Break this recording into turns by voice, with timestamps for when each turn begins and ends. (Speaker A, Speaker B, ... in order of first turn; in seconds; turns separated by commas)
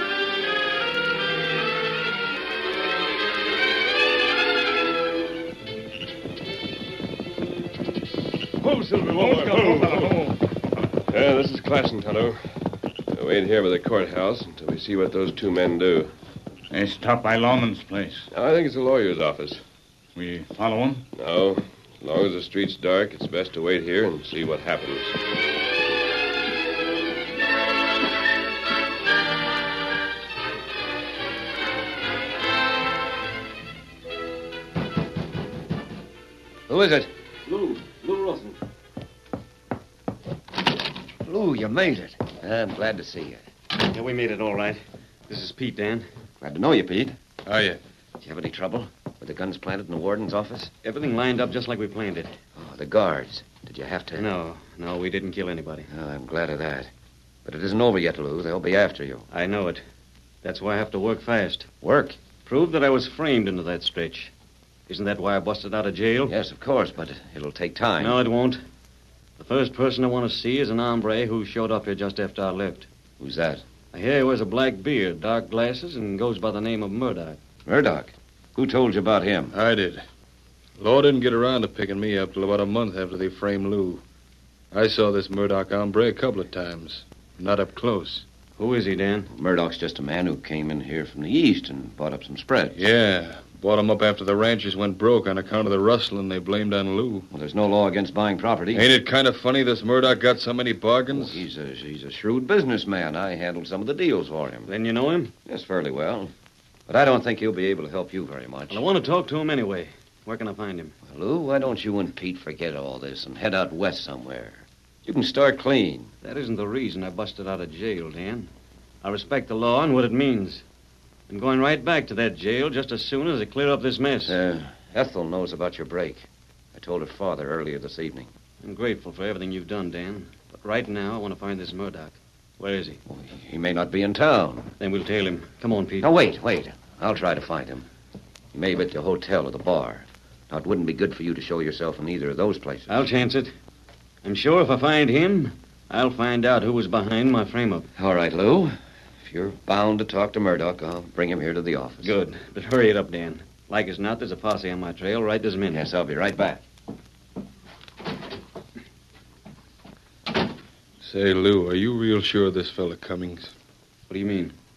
Speaker A: 8.6-10.2, Speaker B: 9.1-10.4, Speaker A: 11.1-12.4, Speaker A: 13.1-16.1, Speaker B: 16.7-18.3, Speaker A: 18.3-19.6, Speaker B: 20.1-21.0, Speaker A: 21.1-25.1, Speaker C: 36.7-38.6, Speaker C: 41.2-43.4, Speaker D: 43.8-46.0, Speaker C: 46.4-47.1, Speaker E: 47.5-47.8, Speaker C: 48.2-50.7, Speaker D: 50.8-52.3, Speaker C: 52.5-54.3, Speaker D: 54.1-55.9, Speaker C: 55.9-56.9, Speaker C: 57.4-59.3, Speaker D: 59.3-59.8, Speaker D: 60.4-61.7, Speaker C: 61.8-62.2, Speaker D: 62.4-64.3, Speaker D: 64.9-66.3, Speaker C: 66.2-68.2, Speaker D: 68.0-68.6, Speaker D: 69.4-72.9, Speaker C: 73.2-73.6, Speaker D: 73.9-77.4, Speaker C: 77.7-79.5, Speaker E: 79.5-80.0, Speaker E: 80.8-84.0, Speaker E: 84.7-88.2, Speaker D: 88.6-89.3, Speaker C: 89.3-92.8, Speaker E: 92.7-97.3, Speaker C: 97.3-98.9, Speaker E: 98.7-101.4, Speaker C: 101.1-104.7, Speaker D: 104.7-105.3, Speaker C: 105.4-106.3, Speaker C: 106.9-108.8, Speaker D: 108.7-110.9, Speaker C: 111.0-116.1, Speaker D: 116.2-118.5, Speaker D: 119.0-120.6, Speaker D: 121.3-124.4, Speaker C: 124.2-128.3, Speaker D: 128.6-133.0, Speaker C: 133.1-134.7, Speaker D: 134.8-136.1, Speaker C: 136.0-137.9, Speaker C: 138.5-143.0, Speaker D: 142.9-143.5, Speaker D: 144.2-147.9, Speaker C: 147.9-152.1, Speaker D: 152.0-155.8, Speaker C: 155.7-156.6, Speaker E: 161.0-163.5, Speaker D: 164.1-164.5